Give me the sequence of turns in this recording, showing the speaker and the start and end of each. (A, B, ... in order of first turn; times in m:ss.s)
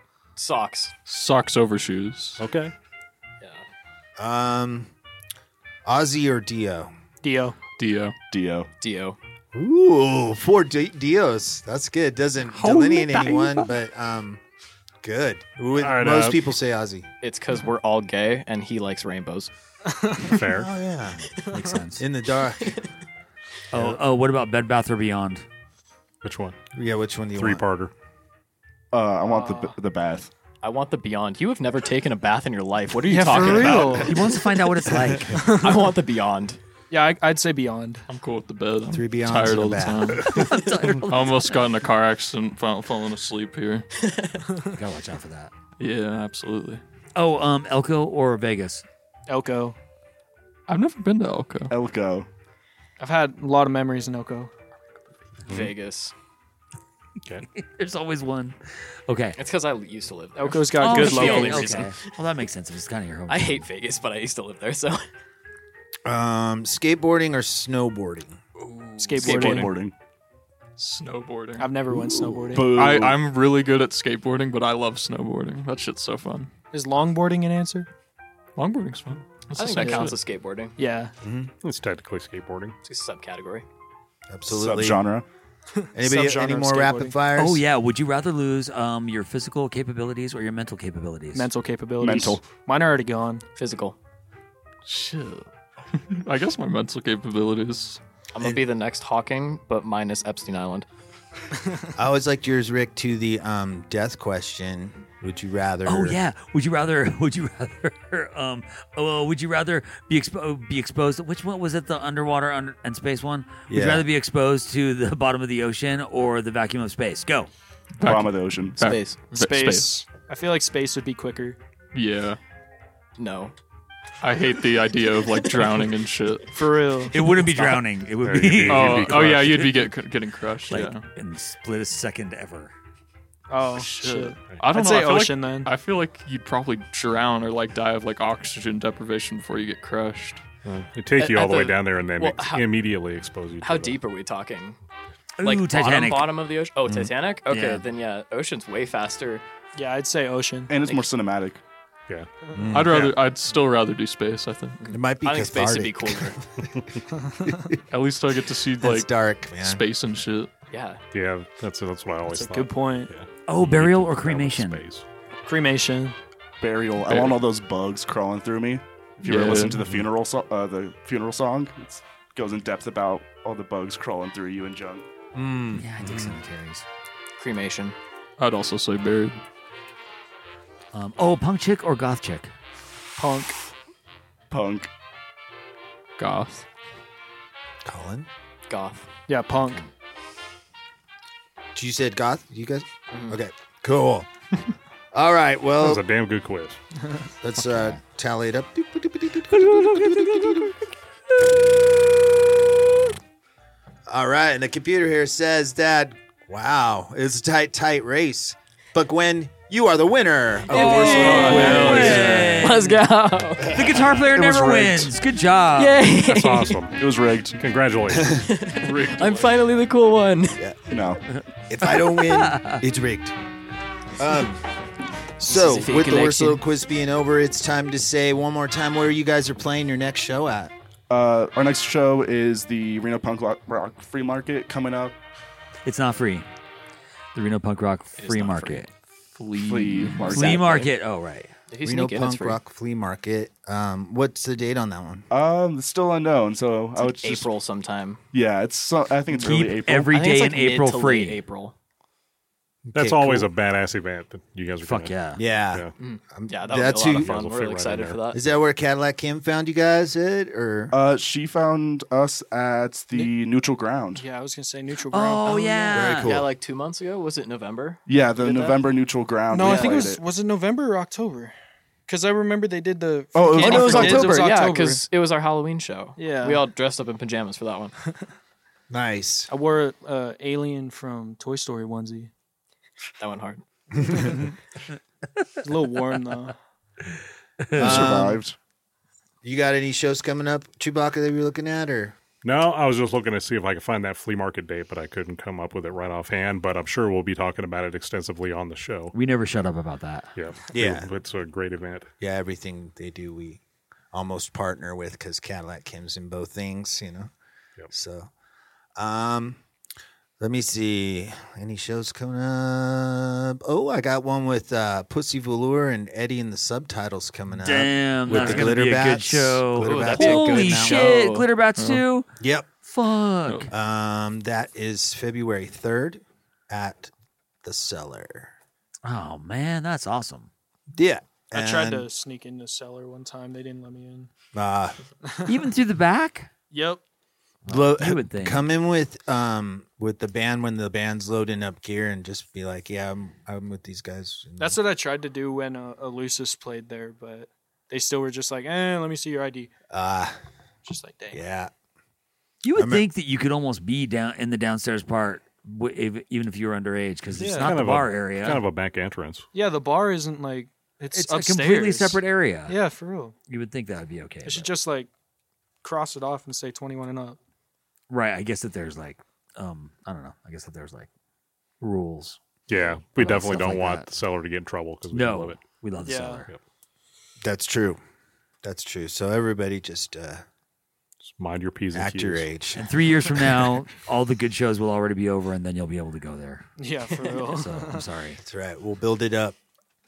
0:00.4-0:00.9 A
0:01.0-0:02.4 B
0:02.4-0:02.7 C
0:04.2-0:04.9 D
0:05.8-0:06.9 D
0:07.2-0:07.6 E
0:07.8-0:08.1 B
0:08.3-0:08.7 F
0:08.8-0:09.2 A
0:09.5-0:14.4 D
0:12.6-0:13.5 G
0:12.8-0:13.6 B
0:15.0-0:17.1 D
0:15.8-0:16.4 C
0:17.2-0:19.5 A
0:19.9-0:20.4 E
0:20.2-0:20.7 C
0:20.5-0:21.3 D
0:21.5-0:22.0 G
0:22.0-0:22.8 D
0:23.7-0:25.4 G
0:23.7-0:24.0 D
0:26.2-0:26.6 C
0:26.7-0:27.6 D
0:27.4-0:27.9 C
0:28.9-0:30.3 F
0:29.2-0:29.8 E
0:30.6-0:34.2 A
0:33.0-0:34.2 E
0:33.5-0:35.5 G
0:35.4-0:35.7 E
0:35.4-0:36.6 A
0:36.9-0:38.0 E
0:38.1-0:40.4 B
0:38.9-0:40.5 D
0:40.2-0:41.6 G
0:41.0-0:43.8 B
0:44.0-0:44.4 A
0:44.7-0:45.5 G
0:45.8-0:46.8 B
0:47.1-0:48.8 G
0:49.3-0:49.8 E
0:50.7-0:51.7 B
0:51.7-0:52.3 F
0:53.0-0:54.5 E
0:55.4-0:56.1 A
0:57.5-0:59.4 G
0:59.4-1:02.0 A
1:00.4-1:01.8 E
1:00.8-1:03.6 G
1:03.3-1:05.0 A
1:06.0-1:08.4 D
1:08.6-1:09.5 A
1:09.0-1:09.7 E
1:09.2-1:09.9 F
1:09.2-1:09.6 B
1:10.8-1:11.7 B
1:11.6-1:12.7 E
1:11.9-1:13.2 F
1:12.6-1:16.5 B
1:16.7-1:17.9 E
1:18.6-1:20.2 B
1:19.5-1:20.7 A
1:19.8-1:20.1 E
1:20.8-1:21.1 E
1:21.2-1:21.5 D
1:21.6-1:22.7 C
1:22.8-1:23.6 A
1:24.3-1:25.0 D
1:24.5-1:25.2 F
1:25.8-1:27.1 E
1:25.9-1:27.6 D
1:27.3-1:31.5 G
1:31.3-1:33.4 E
1:32.0-1:32.4 F
1:33.6-1:34.0 A
1:34.8-1:38.0 B
1:38.3-1:40.8 A
1:42.0-1:46.2 D
1:45.8-1:57.5 G
1:53.7-1:54.1 D
1:58.0-1:59.9 B
1:58.0-1:58.8 F
1:58.8-1:59.3 A
1:59.3-2:01.6 E
1:59.5-1:59.8 F
2:01.9-2:02.4 B
2:03.2-2:03.5 A
2:04.2-2:06.5 B
2:06.5-2:07.2 E
2:07.1-2:09.4 G
2:08.2-2:09.7 C
2:08.7-2:11.0 B
2:10.7-2:12.7 G
2:13.5-2:15.7 E
2:13.8-2:20.4 B
2:20.6-2:24.0 C
2:21.2-2:22.7 A
2:23.6-2:24.8 A
2:25.4-2:26.3 G
2:25.4-2:29.4 A
2:27.5-2:27.8 G
2:29.7-2:30.7 E
2:30.7-2:31.6 F
2:32.5-2:33.2 D
2:32.7-2:34.9 B
2:34.8-2:36.4 A
2:34.9-2:37.8 D
2:37.9-2:40.5 B
2:38.8-2:39.8 D
2:40.7-2:41.0 A
2:41.1-2:45.0 C
2:42.3-2:43.1 E
2:43.5-2:44.8 G
2:45.4-2:46.1 E
2:46.6-2:55.0 F
2:47.0-2:47.4 B
2:49.2-2:49.9 B
2:55.3-2:56.4 D
2:55.7-2:56.8 G
2:57.4-2:58.0 A
2:58.4-2:59.4 B
3:00.9-3:02.5 G
3:03.2-3:03.6 E
3:04.5-3:04.9 F
3:06.2-3:06.6 B
3:07.8-3:08.3 D
3:08.7-3:09.0 A
3:09.3-3:09.8 E
3:11.7-3:14.3 D
3:13.1-3:13.4 A
3:15.1-3:16.0 D
3:15.8-3:16.8 C
3:17.4-3:20.7 D
3:17.6-3:18.0 G
3:19.5-3:20.7 G
3:24.1-3:32.7 D
3:30.7-3:33.8 A
3:30.7-3:32.9 G
3:30.7-3:32.4 B
3:33.6-3:34.2 D
3:33.7-3:36.0 G
3:34.3-3:35.1 F
3:35.7-3:36.8 A
3:36.1-3:37.0 C
3:37.0-3:37.6 F
3:37.6-3:38.5 C
3:38.1-3:38.4 D
3:38.4-3:40.6 A
3:38.8-3:39.6 B
3:40.6-3:40.8 D
3:40.9-3:41.2 F
3:41.7-3:43.3 D
3:41.8-3:42.8 G
3:44.2-3:44.6 D
3:45.4-3:50.7 D
3:45.4-3:46.6 A
3:51.1-3:55.2 F
3:55.8-3:56.4 G
3:57.3-3:58.9 G
3:58.2-3:58.8 A
3:59.3-4:00.5 B
3:59.6-4:00.6 F
4:00.3-4:01.5 G
4:00.3-4:00.9 A
4:01.7-4:02.6 A
4:01.8-4:05.3 D
4:05.3-4:07.5 F
4:07.0-4:08.2 A
4:08.3-4:10.1 F
4:09.3-4:11.7 A
4:09.4-4:11.4 G
4:12.9-4:15.2 C
4:13.0-4:13.5 D
4:14.8-4:15.4 G
4:15.4-4:17.4 D
4:16.0-4:18.4 A
4:17.1-4:18.2 C
4:18.3-4:20.9 D
4:20.9-4:24.2 F
4:24.1-4:26.0 E
4:25.1-4:26.3 G
4:25.9-4:26.5 D
4:26.2-4:28.8 A
4:28.0-4:30.2 F
4:29.5-4:31.5 E
4:29.6-4:30.1 A
4:32.1-4:35.0 E
4:33.3-4:34.4 F
4:33.5-4:37.9 A
4:36.2-4:36.6 E
4:38.9-4:39.5 D
4:39.5-4:42.3 E
4:43.2-4:43.6 A
4:44.1-4:44.4 E
4:45.6-4:46.5 E
4:47.6-4:48.2 G
4:47.7-4:48.6 F
4:47.8-4:48.4 D
4:49.4-4:52.1 D
4:52.4-4:59.1 C
4:59.1-5:00.3 G
5:00.4-5:02.1 C
5:00.7-5:01.1 D
5:02.2-5:03.6 D
5:04.1-5:07.3 D
5:07.9-5:08.3 D
5:09.0-5:09.6 D
5:10.4-5:21.2 D
5:17.6-5:22.3 G
5:19.8-5:21.5 A
5:21.7-5:22.0 B
5:22.4-5:22.7 D
5:22.8-5:23.7 G
5:23.7-5:27.1 D
5:27.6-5:28.5 D
5:29.0-5:30.5 G
5:30.9-5:32.1 D
5:31.5-5:34.3 E
5:34.5-5:35.0 D
5:35.4-5:36.5 G
5:36.7-5:37.0 E
5:37.6-5:38.6 G
5:37.7-5:44.8 D
5:44.6-5:49.7 E
5:49.9-5:50.3 D
5:50.8-5:51.4 E
5:51.3-5:51.7 D
5:52.6-5:58.6 G
5:52.8-5:53.0 D
5:57.3-5:57.8 E
5:57.6-5:59.4 C
5:59.5-6:03.3 E
6:01.1-6:02.8 G
6:03.5-6:04.7 G
6:04.4-6:05.1 E
6:05.8-6:07.4 E
6:08.1-6:11.1 G
6:11.8-6:14.1 G
6:12.7-6:15.6 C
6:15.1-6:16.5 G
6:16.0-6:16.4 E
6:17.4-6:18.0 D
6:18.6-6:20.4 D
6:21.2-6:22.5 C
6:21.9-6:22.9 D
6:22.7-6:26.7 G
6:26.8-6:28.0 E
6:27.5-6:28.4 G
6:28.4-6:29.6 D